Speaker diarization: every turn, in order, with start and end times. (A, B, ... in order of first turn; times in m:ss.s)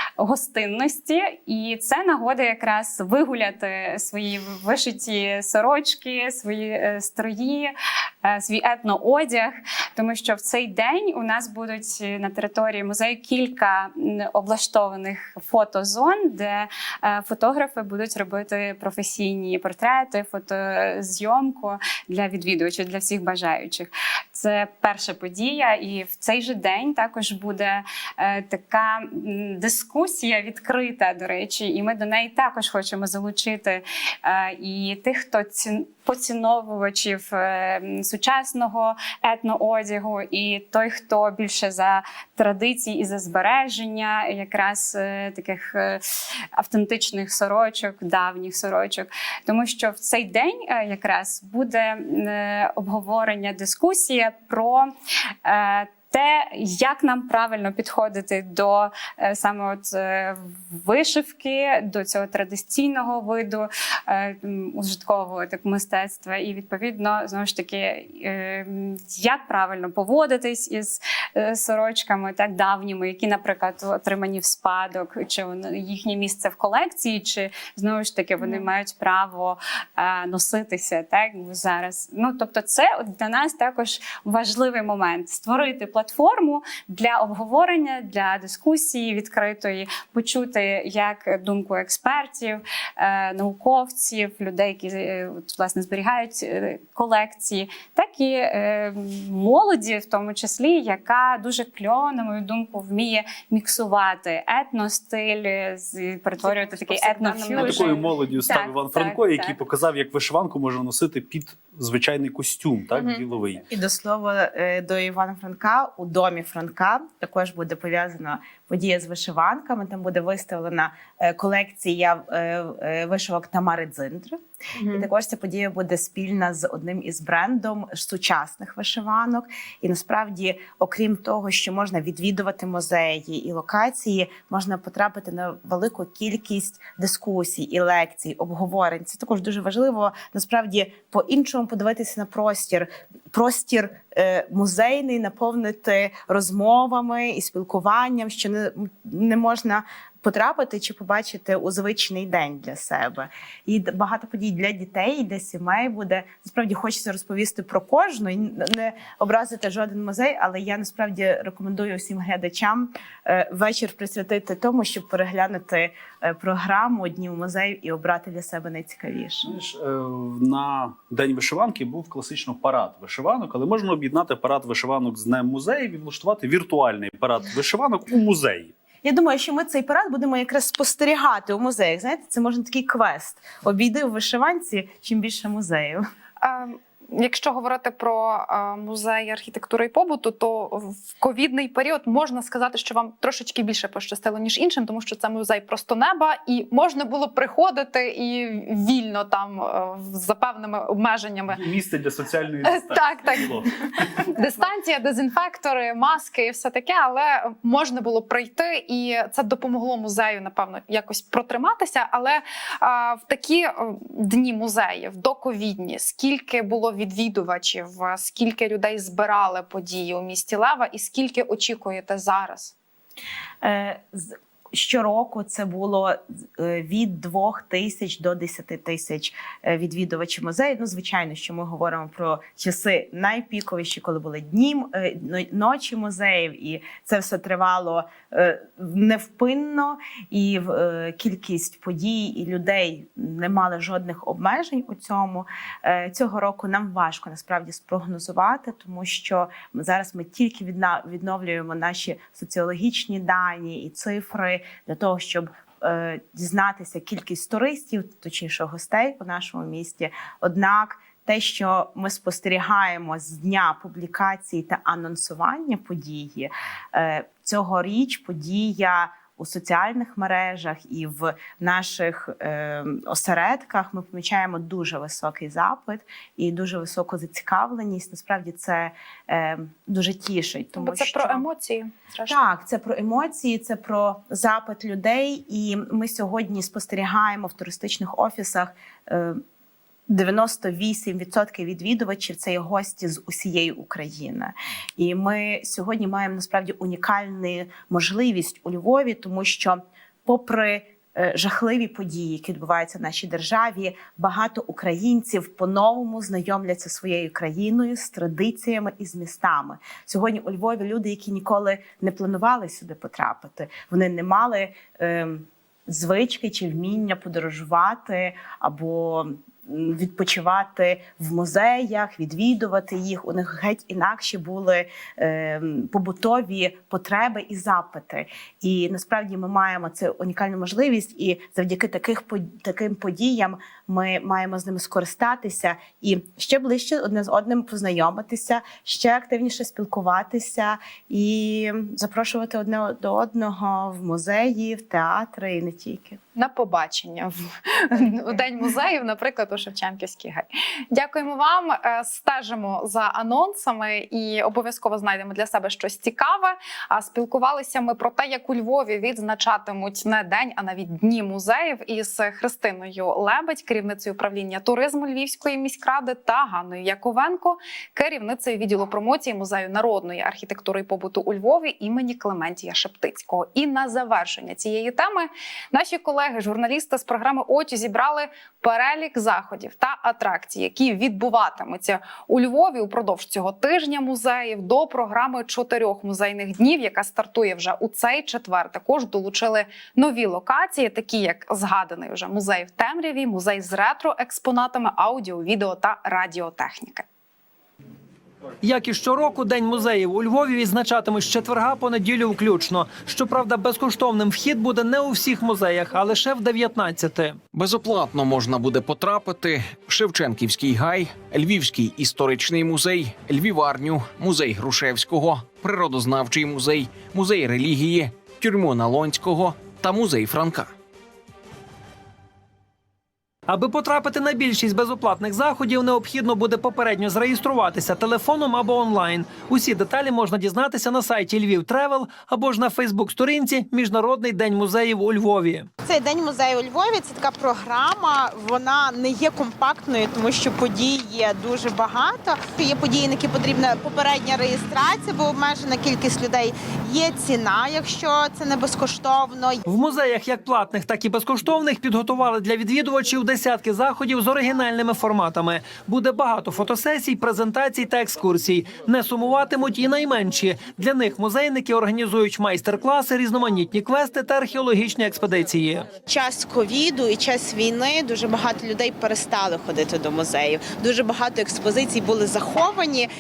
0:00.2-0:07.7 A
0:08.2-0:46.0 A
0:46.6-0:54.9 A
0:55.4-1:49.6 A
1:46.4-1:48.0 B
1:47.5-1:53.6 C
1:52.9-1:53.2 B
1:53.7-2:49.5 D
2:49.4-2:58.7 C
2:59.0-3:06.0 D
3:06.4-3:21.6 B
3:21.5-3:24.2 C
3:22.6-3:23.7 B
3:24.3-3:42.7 B
3:43.6-4:41.4 D
4:40.8-4:42.4 B
4:42.3-4:49.4 D
4:50.1-5:46.2 D
5:46.4-6:37.0 B
6:38.6-6:47.4 E
6:47.5-7:00.7 F
7:03.5-7:15.7 E
7:15.9-7:26.5 G
7:16.0-7:29.4 D
7:27.0-7:29.6 G
7:29.7-7:45.9 E
7:46.1-7:47.3 G
7:46.2-7:52.8 D
7:49.0-7:49.8 G
7:50.3-7:51.4 G